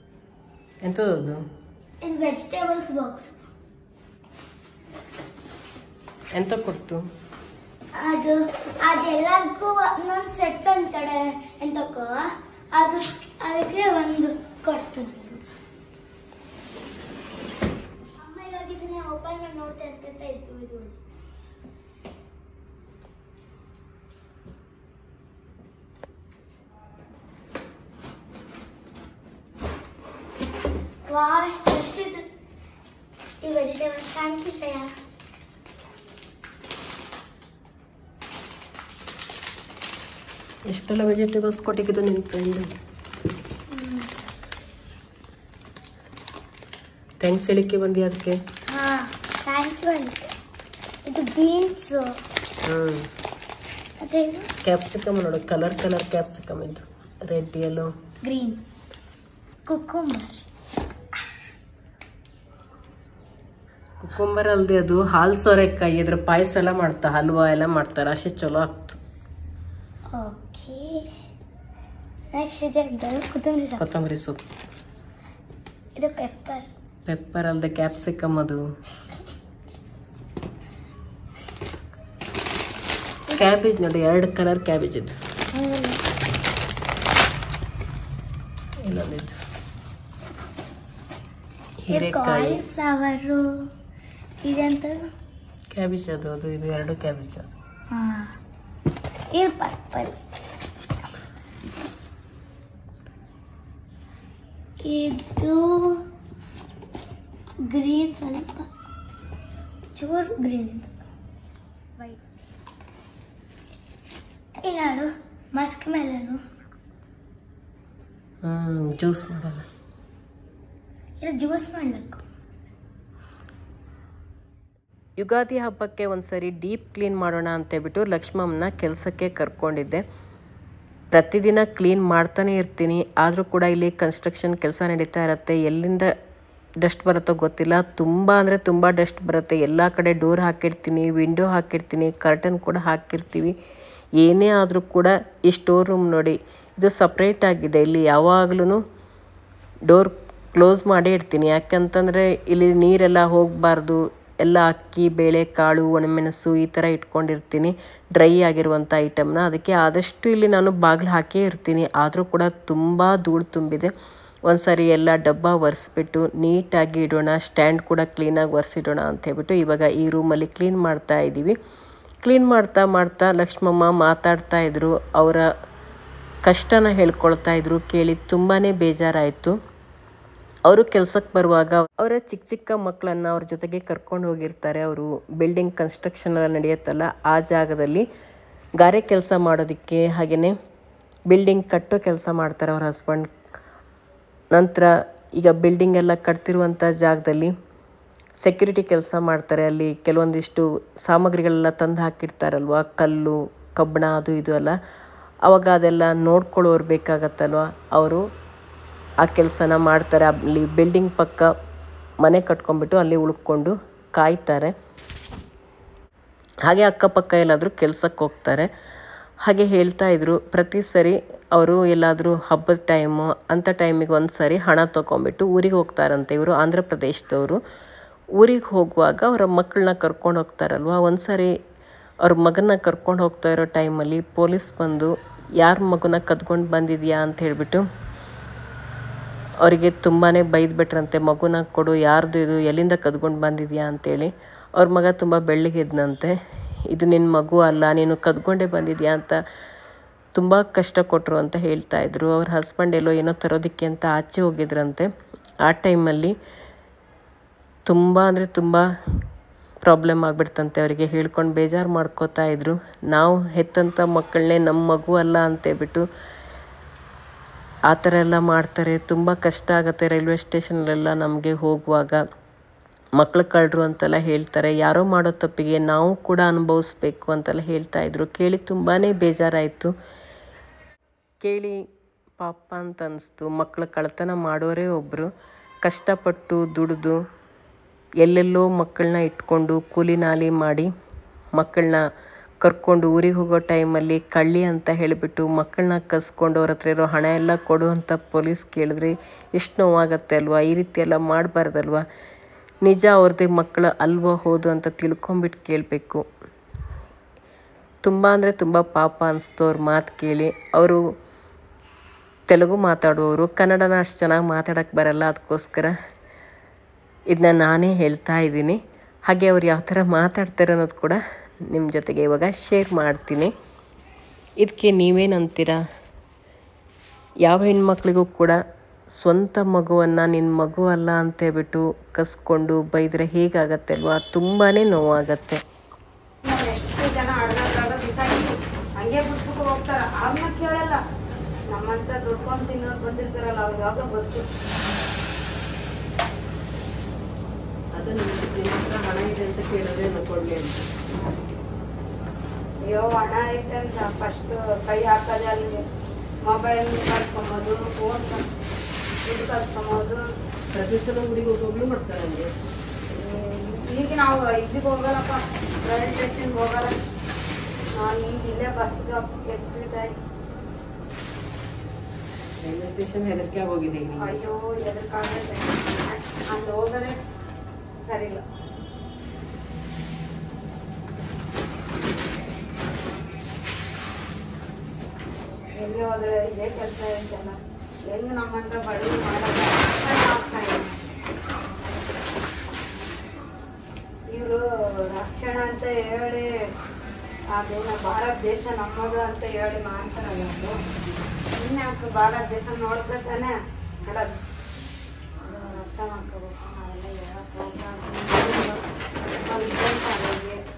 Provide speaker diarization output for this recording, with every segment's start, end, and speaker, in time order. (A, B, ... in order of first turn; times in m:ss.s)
0:00.8-0:01.4 A
0:02.0-0:03.4 B
0:06.3-0:07.0 A
0:08.0-0:15.5 B
0:18.2-0:21.0 B
0:31.1-0:32.4 B
0:33.4-0:34.9 B
0:40.7-0:42.7 A
0:43.7-0:44.1 B
0:47.2-0:48.4 A
0:48.7-0:50.3 B
0:51.1-0:52.2 B
0:52.7-0:53.1 A
0:54.0-0:54.5 B
0:54.6-0:57.9 A
0:58.2-0:58.6 B
0:59.7-1:00.4 B
1:04.0-1:09.0 A
1:10.1-1:11.1 B
1:12.3-1:13.8 B
1:13.8-1:14.4 A
1:16.0-1:16.7 B
1:17.1-1:18.6 A
1:23.4-1:25.2 A
1:25.5-1:26.0 B
1:28.8-1:29.4 A
1:31.9-1:32.6 A
1:31.9-1:33.5 B
1:34.4-1:35.1 B
1:35.7-1:37.5 A
1:37.9-1:38.4 B
1:39.3-1:40.2 B
1:44.8-1:46.0 B
1:47.6-1:48.7 B
1:50.0-1:50.9 B
1:54.6-1:56.4 B
1:58.4-1:59.7 A
2:01.2-2:02.2 B
2:05.2-2:10.0 A
2:11.1-2:16.1 A
2:16.8-2:23.6 A
2:24.2-2:28.8 A
2:29.9-2:43.9 A
2:44.5-2:51.6 A
2:52.2-2:55.4 A
2:56.5-2:59.6 A
3:00.7-3:08.1 A
3:08.8-3:10.6 A
3:11.3-3:13.3 A
3:14.5-3:17.5 A
3:18.4-3:24.8 A
3:25.5-3:28.2 A
3:29.2-3:31.5 A
3:32.2-3:34.7 A
3:36.6-3:38.7 A
3:39.4-3:47.6 A
3:48.4-3:51.5 A
3:52.2-3:57.8 A
3:59.6-4:06.4 A
4:06.9-4:09.4 A
4:10.3-4:15.1 A
4:15.6-4:16.3 A
4:17.9-4:18.9 A
4:19.8-4:26.0 A
4:27.9-4:32.2 A
4:33.2-4:39.9 A
4:41.4-4:41.8 A
4:42.4-4:45.3 A
4:45.8-4:47.2 A
4:48.2-4:50.9 A
4:51.6-4:52.0 A
4:52.6-5:02.0 A
5:02.8-5:06.2 A
5:08.0-5:11.0 A
5:12.5-5:15.9 A
5:17.3-5:21.2 A
5:21.7-5:23.5 A
5:24.6-5:25.8 A
5:27.4-5:28.6 A
5:29.2-5:35.6 A
5:36.4-5:41.0 C
5:41.7-5:44.5 C
5:47.9-5:50.8 A
5:51.2-5:51.6 C
5:52.8-5:55.8 C
5:56.5-5:58.4 C
5:59.2-6:00.2 C
6:00.7-6:02.6 A
6:03.1-6:06.9 C
6:08.0-6:10.1 C
6:12.6-6:14.4 A
6:14.2-6:17.2 C
6:18.0-6:18.4 C
6:25.7-6:31.0 C
6:34.3-6:36.5 C
6:37.5-6:40.8 C
6:41.5-6:43.5 C
6:44.0-6:44.3 C
6:45.4-6:48.8 C
6:49.4-6:50.6 C